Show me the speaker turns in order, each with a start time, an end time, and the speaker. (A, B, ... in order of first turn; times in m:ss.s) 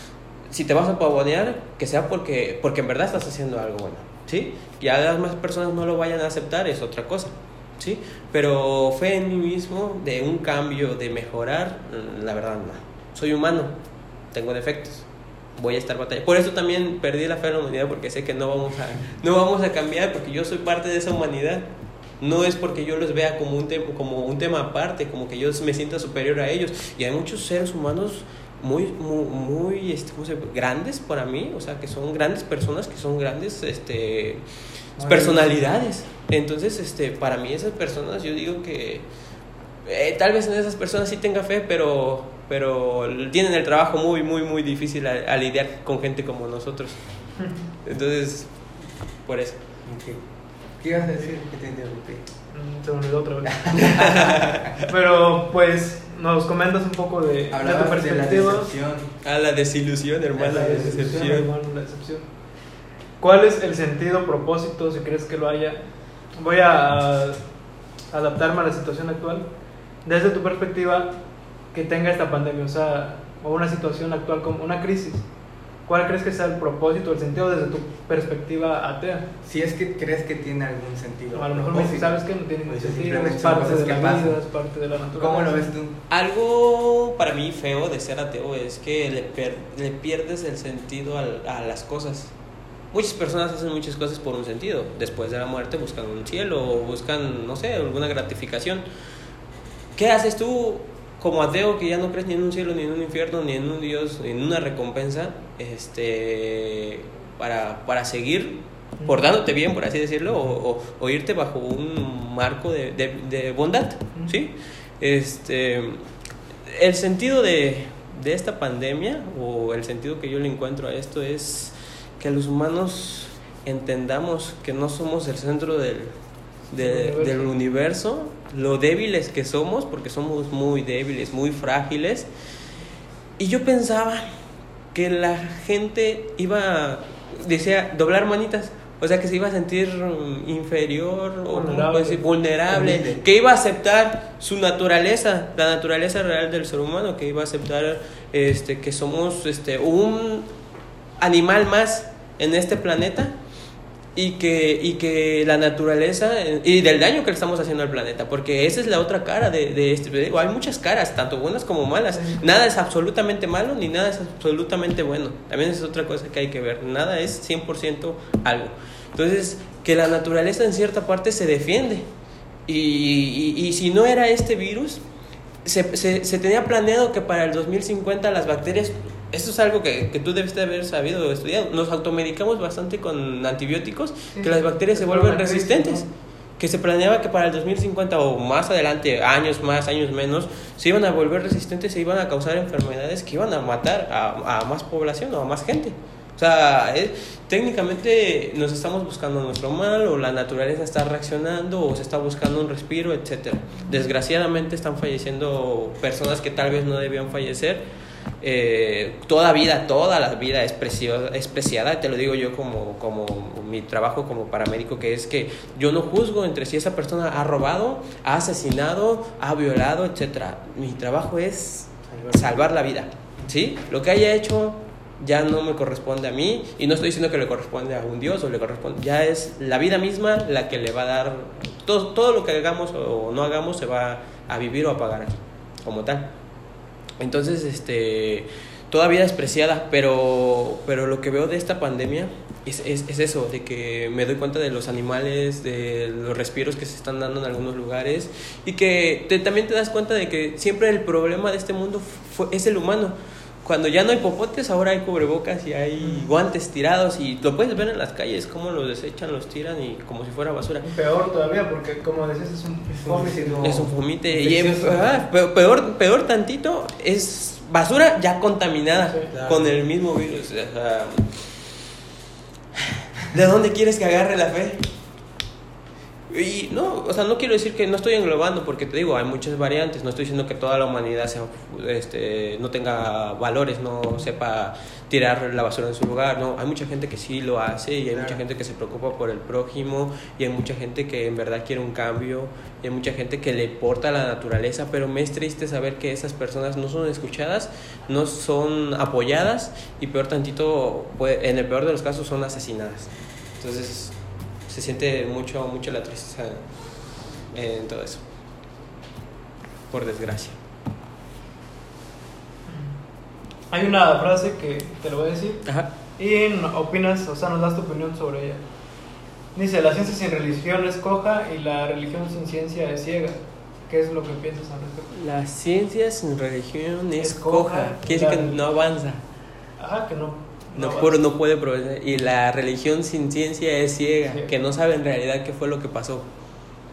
0:00.5-0:13.7 A
0:14.3-0:15.1 A
0:15.6-0:21.7 A
0:22.2-0:34.4 A
0:35.0-0:35.7 B
0:35.0-0:39.1 A
0:39.8-0:47.0 A
0:47.8-0:48.5 A
0:49.3-0:49.6 A
0:49.8-0:50.2 C
0:50.8-0:52.3 C
0:52.5-0:54.0 B
0:53.5-0:54.6 C
0:53.8-0:54.7 A
0:54.9-0:58.7 B
0:57.5-0:59.1 C
0:59.2-1:01.5 A
1:00.4-1:01.3 C
1:00.5-1:02.3 B
1:03.2-1:07.4 B
1:08.1-1:09.5 B
1:10.0-1:11.2 B
1:11.7-1:15.3 B
1:15.9-1:19.3 B
1:19.4-1:24.4 C
1:21.3-1:25.6 B
1:25.1-1:26.0 C
1:26.1-1:32.3 A
1:32.9-1:38.8 A
1:40.0-1:56.0 A
1:56.7-2:06.2 A
2:06.7-2:12.3 A
2:06.8-2:07.5 B
2:13.4-2:14.3 A
2:14.9-2:30.5 A
2:21.5-2:22.2 B
2:22.7-2:23.2 C
2:31.2-2:33.3 A
2:34.2-2:52.1 A
2:42.1-2:42.4 B
2:52.7-2:55.0 A
2:55.6-3:06.1 A
3:04.3-3:06.0 B
3:06.6-3:27.8 A
3:28.4-3:56.3 A
3:42.1-3:42.6 C
3:57.2-4:20.9 A
4:16.0-4:16.3 B
4:20.8-4:23.6 B
4:22.9-4:25.2 C
4:23.6-4:31.8 A
4:29.3-4:29.7 C
4:32.8-4:34.9 A
4:36.3-5:04.2 A
4:48.1-4:48.4 C
5:04.7-5:06.7 A
5:07.5-5:08.2 A
5:09.9-5:10.6 A
5:12.7-5:13.0 B
5:13.7-5:15.6 B
5:16.2-5:18.6 B
5:19.6-5:25.1 B
5:25.1-5:29.2 A
5:27.2-5:28.6 B
5:29.8-5:31.2 B
5:30.8-5:36.3 A